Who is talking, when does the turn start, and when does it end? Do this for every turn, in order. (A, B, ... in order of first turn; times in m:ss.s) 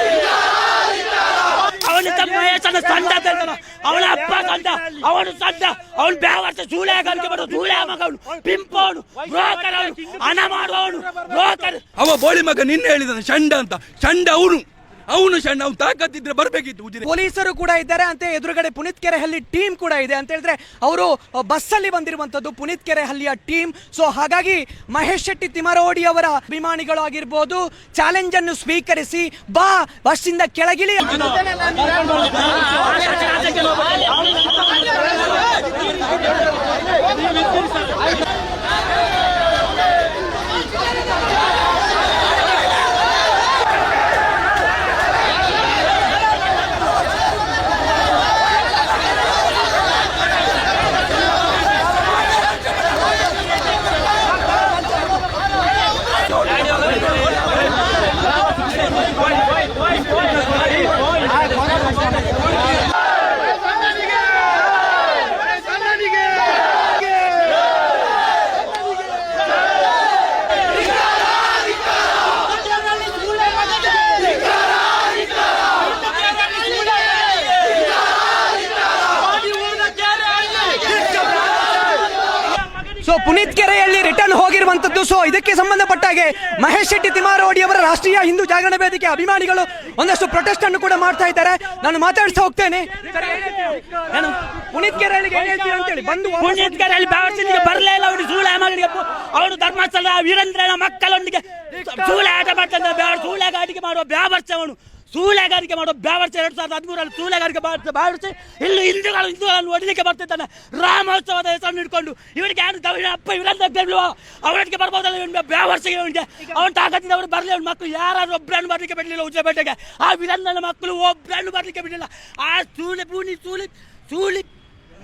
0:01.7-0:11.8 A
0:12.0-0:17.1 B
0:17.0-0:31.4 C
0:32.8-0:33.8 A
1:19.6-1:20.6 A
1:23.0-1:36.8 C
1:36.4-2:04.5 A